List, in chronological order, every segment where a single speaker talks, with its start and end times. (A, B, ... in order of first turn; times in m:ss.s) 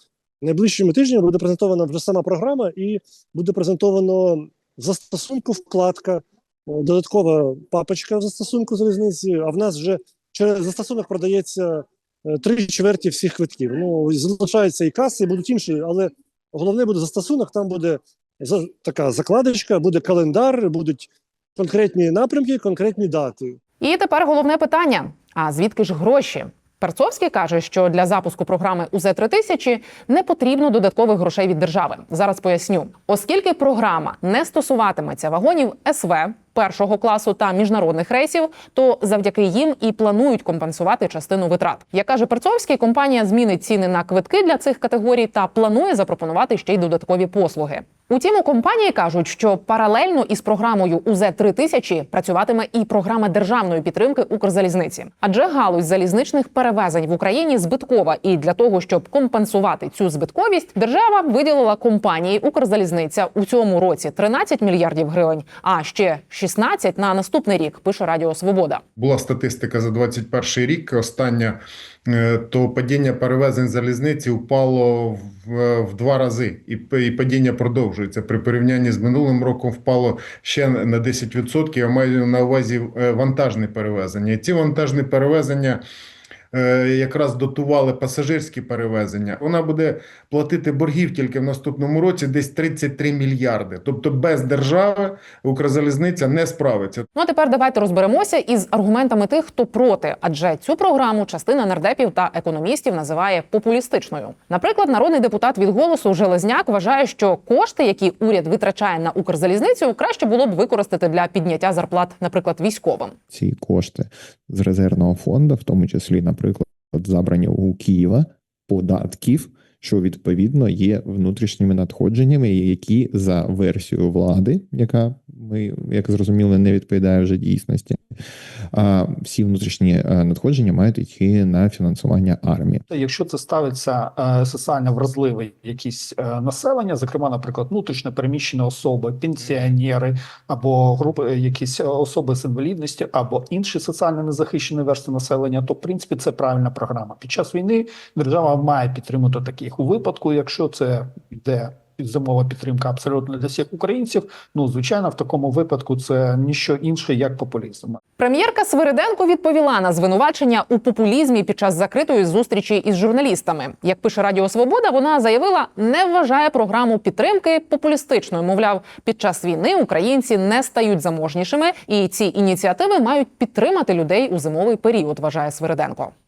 0:00.4-0:23.6 A
0:23.8-1:08.8 B
1:09.0-1:25.8 C
1:26.5-1:37.1 C
1:37.1-1:53.1 B
1:53.3-2:08.0 D
2:08.7-2:12.8 D
2:12.9-2:38.0 E
2:38.2-2:56.1 B